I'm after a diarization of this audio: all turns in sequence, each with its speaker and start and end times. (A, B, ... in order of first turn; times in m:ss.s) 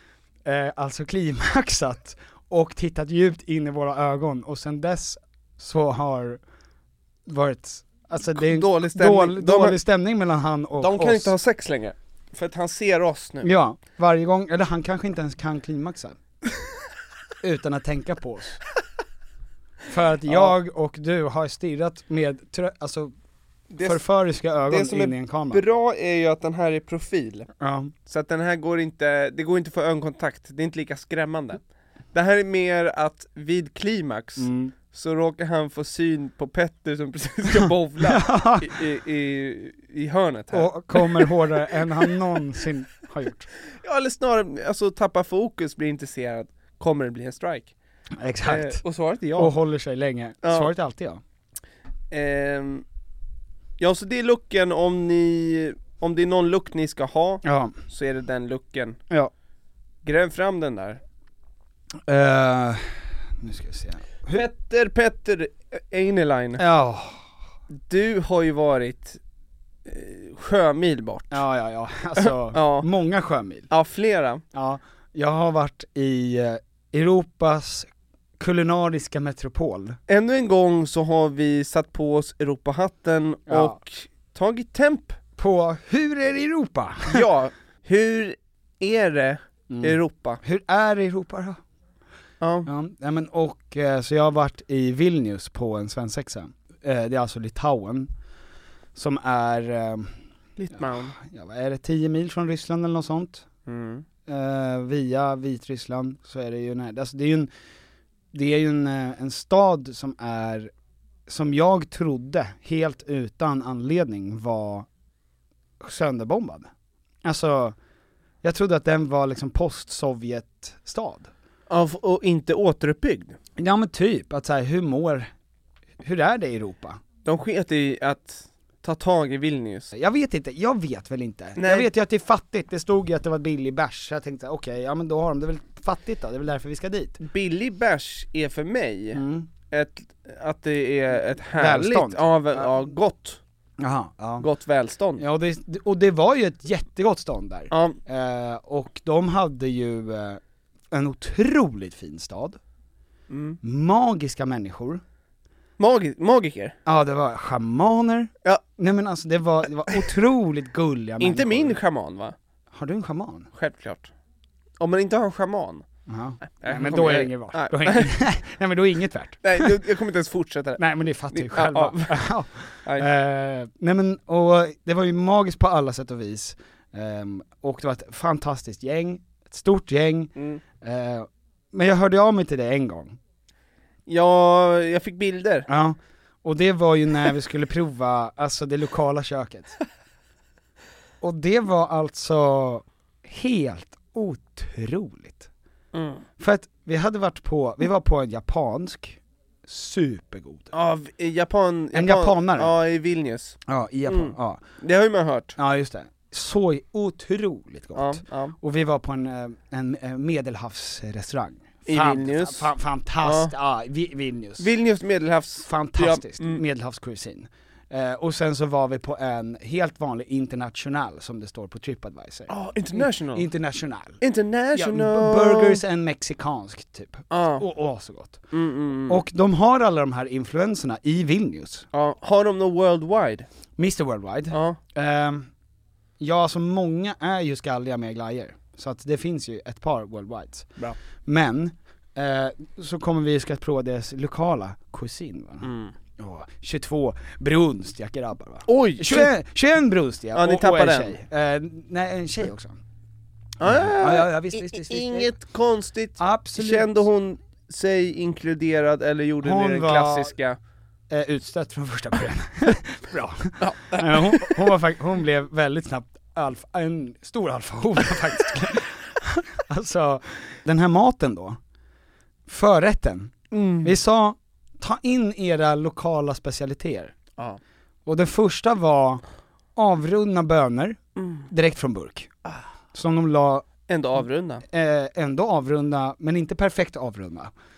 0:00.4-0:06.4 A
0:07.2-0:11.3 A
0:08.4-0:09.8 B
0:10.8-0:13.5 B
0:13.4-0:16.2 A
0:17.4-0:18.6 A
0:19.9-0:23.1 A
0:20.3-0:20.5 B
0:23.7-0:24.0 B
0:23.8-0:25.6 A
0:24.7-0:27.5 B
0:27.6-0:27.9 A
0:28.0-0:31.6 B
0:32.1-0:42.1 B
0:34.4-0:34.7 A
0:37.6-0:38.8 A
0:40.5-0:43.5 A
0:43.8-0:47.7 B
0:48.2-0:48.8 A
0:48.4-0:49.5 B
0:49.3-0:51.2 A
0:50.4-0:50.7 B
0:52.1-0:52.8 B
0:53.8-0:59.0 B
0:57.4-0:57.7 A
1:00.0-1:01.0 B
1:02.0-1:04.5 A
1:04.3-1:06.6 B
1:06.6-1:07.2 A
1:07.7-1:09.2 B
1:09.8-1:11.4 B
1:11.3-1:13.7 A
1:12.2-1:12.9 B
1:13.7-1:14.4 B
1:14.5-1:20.0 A
1:20.1-1:25.2 B
1:23.5-1:23.8 A
1:25.4-1:27.3 A
1:27.1-1:30.4 B
1:29.7-1:31.6 A
1:32.4-1:32.7 B
1:32.6-1:38.1 A
1:38.9-1:40.1 A
1:40.6-1:41.2 B
1:40.7-1:43.4 A
1:43.6-1:44.0 B
1:44.3-1:47.5 A
1:48.3-1:50.7 A
1:51.3-1:54.9 A
1:55.8-1:56.7 A
1:57.2-1:57.8 A
1:58.4-2:01.3 A
2:01.7-2:03.4 B
2:03.6-2:05.3 A
2:06.0-2:07.0 A
2:07.2-2:09.9 B
2:09.9-2:17.2 A
2:11.6-2:11.9 B
2:17.2-2:23.4 B
2:19.1-2:19.5 A
2:21.6-2:22.7 A
2:23.8-2:24.4 A
2:24.4-2:25.2 B
2:25.2-2:32.6 A
2:27.7-2:28.0 B
2:33.3-2:33.6 B
2:33.6-2:35.0 A
2:35.8-2:36.8 B
2:36.8-2:41.8 A
2:41.2-2:42.4 B
2:42.7-2:43.5 A
2:43.5-2:44.1 B
2:44.8-2:45.8 B
2:46.1-2:49.8 A
2:46.4-2:48.1 B
2:49.4-2:50.8 B
2:50.8-3:03.2 A
2:51.3-2:52.3 B
2:52.8-2:53.1 B
3:00.4-3:00.6 B
3:04.1-3:05.7 B
3:05.7-3:09.7 A
3:11.2-3:15.5 A
3:15.9-3:16.2 B
3:16.4-3:20.7 A
3:20.7-3:25.6 B
3:21.9-3:22.7 A
3:23.7-3:24.6 A
3:25.6-3:34.7 A
3:27.9-3:28.5 B
3:31.8-3:33.5 B
3:34.6-3:36.6 B
3:35.6-3:44.2 A
3:42.5-3:43.5 B
3:44.2-3:45.8 B
3:44.7-3:48.4 A
3:47.3-3:47.6 B
3:48.5-3:49.2 B
3:49.1-3:51.9 A
3:51.9-3:53.5 B
3:53.8-3:55.5 A
3:54.5-3:54.8 B
3:56.2-4:12.8 A
4:05.6-4:05.9 B
4:08.7-4:09.3 B
4:10.3-4:11.2 B
4:13.6-4:20.6 B
4:13.6-4:15.3 A
4:16.2-4:17.1 A
4:19.4-4:20.3 A
4:21.1-4:31.6 A
4:23.6-4:24.6 B
4:32.5-4:37.1 A
4:33.5-4:34.0 B
4:38.0-4:39.2 A
4:39.8-4:42.3 A
4:41.2-4:41.4 B
4:42.9-4:43.7 A
4:43.9-4:44.6 B
4:44.7-4:47.5 A